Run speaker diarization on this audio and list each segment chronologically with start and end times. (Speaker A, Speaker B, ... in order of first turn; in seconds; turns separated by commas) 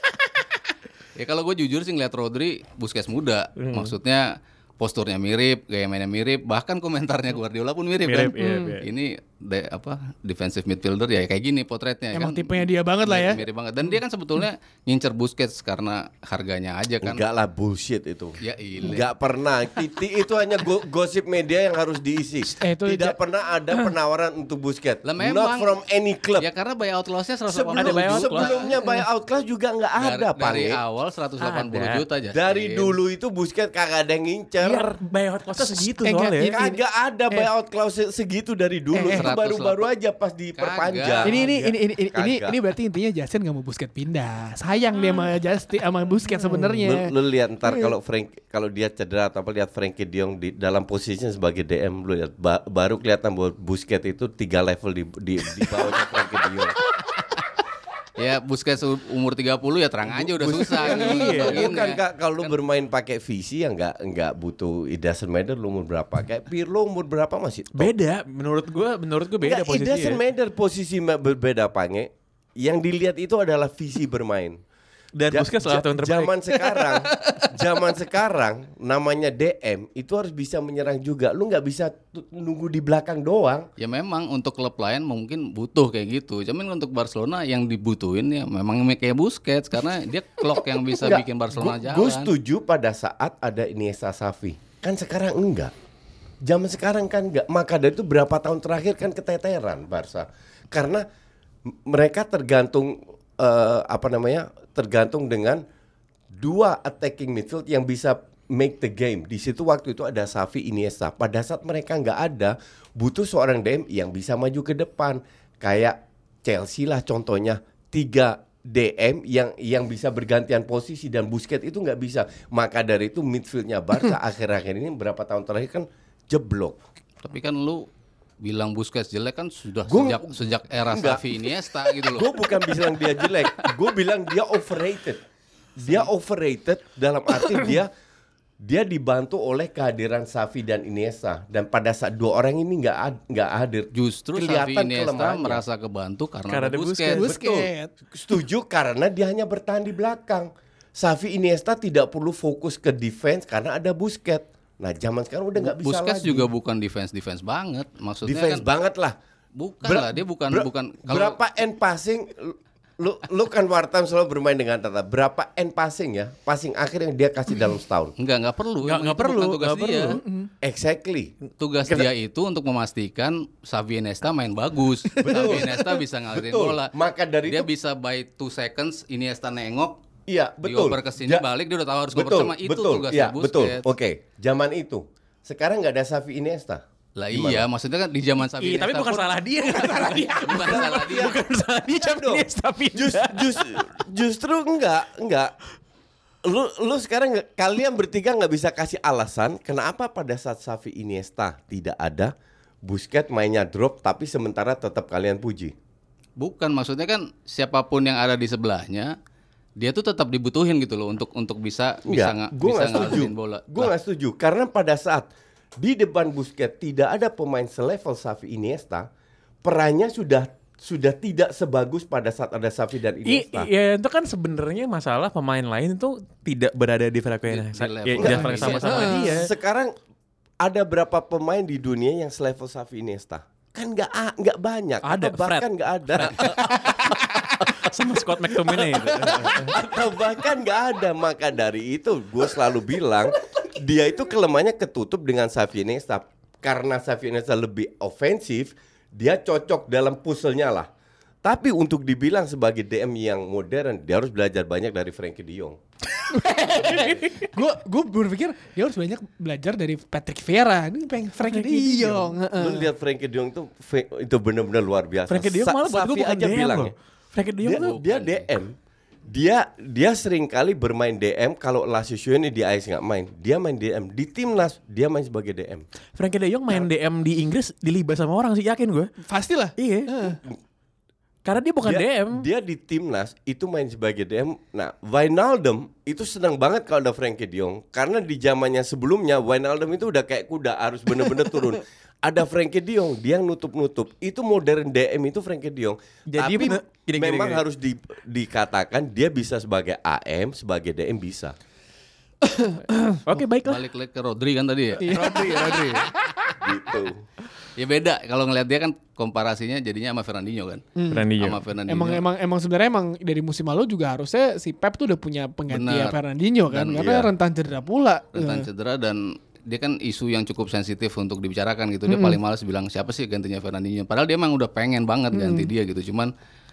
Speaker A: 1.2-17.2, Speaker B: 3.6-3.9, Speaker B: 8.1-8.9, Speaker C: 8.4-8.8, Speaker C: 12.1-13.4, Speaker D: 17.0-26.5, Speaker A: 18.4-19.1, Speaker C: 22.5-23.2, Speaker A: 25.1-25.8, Speaker A: 26.4-28.8, Speaker D: 27.5-30.8, Speaker B: 27.8-28.6, Speaker A: 30.0-33.0, Speaker B: 31.4-32.0, Speaker D: 32.3-35.0, Speaker B: 34.6-36.5, Speaker C: 35.9-37.5, Speaker D: 36.4-42.6, Speaker C: 38.9-39.2, Speaker A: 39.1-39.9, Speaker A: 40.6-41.4, Speaker C: 41.2-47.1, Speaker D: 46.5-56.8, Speaker A: 58.2-62.5, Speaker D: 60.1-67.9, Speaker B: 60.8-61.8, Speaker B: 67.8-70.2, Speaker D: 69.4-74.6, Speaker B: 75.2-76.3, Speaker D: 75.3-83.7, Speaker C: 76.6-77.5, Speaker A: 83.8-92.3, Speaker D: 91.0-95.7, Speaker D: 96.4-101.1, Speaker D: 101.7-105.6, Speaker D: 106.3-126.8, Speaker A: 127.2-127.9, Speaker A: 128.4-132.6, Speaker D: 129.9-131.4, Speaker D: 132.0-135.2, Speaker D: 135.8-137.9, Speaker D: 138.6-145.6, Speaker A: 143.9-147.3, Speaker B: 146.5-147.3, Speaker C: 147.1-147.9, Speaker D: 147.2-156.5, Speaker A: 155.6-158.7, Speaker D: 158.2-159.2, Speaker A: 159.6-161.4, Speaker D: 159.8-168.1, Speaker A: 168.2-170.2, Speaker B: 168.8-170.2, Speaker C: 170.1-170.5, Speaker D: 170.6-171.3, Speaker A: 171.6-176.9, Speaker D: 175.2-177.7, Speaker A: 177.5-180.0, Speaker D: 180.3-181.5, Speaker A: 180.6-183.9, Speaker D: 182.1-187.7, Speaker A: 187.2-191.3, Speaker B: 188.6-193.9, Speaker D: 190.5-195.5, Speaker D: 196.4-205.7, Speaker A: 206.4-209.2, Speaker A: 209.8-213.9, Speaker D: 212.1-219.1, Speaker D: 219.6-223.7, Speaker B: 223.3-229.5, Speaker A: 227.5-229.2, Speaker D: 228.2-229.9, Speaker C: 228.8-229.4, Speaker D: 230.6-237.0, Speaker B: 235.0-239.8, Speaker C: 236.7-237.1, Speaker D: 238.9-250.9, Speaker D: 251.4-255.8, Speaker C: 256.3-262.9, Speaker B: 256.9-257.5, Speaker B: 261.4-262.3, Speaker D: 262.5-266.9, Speaker B: 265.3-268.0, Speaker D: 267.6-268.8, Speaker A: 267.7-268.5, Speaker D: 269.3-275.9, Speaker B: 276.2-279.1, Speaker C: 279.2-280.4, Speaker B: 279.8-280.2, Speaker B: 281.4-282.5, Speaker D: 281.8-301.6, Speaker B: 296.3-297.6, Speaker C: 302.4-303.2, Speaker B: 303.1-303.8, Speaker A: 303.6-305.9, Speaker B: 305.0-306.1, Speaker C: 305.0-306.6, Speaker D: 306.6-307.2, Speaker A: 307.8-312.2, Speaker C: 311.0-311.3, Speaker B: 311.1-311.6, Speaker C: 311.9-318.7, Speaker A: 315.7-316.2, Speaker A: 316.7-317.2, Speaker D: 317.0-317.3, Speaker A: 318.3-326.3, Speaker C: 322.1-322.4, Speaker C: 325.3-325.7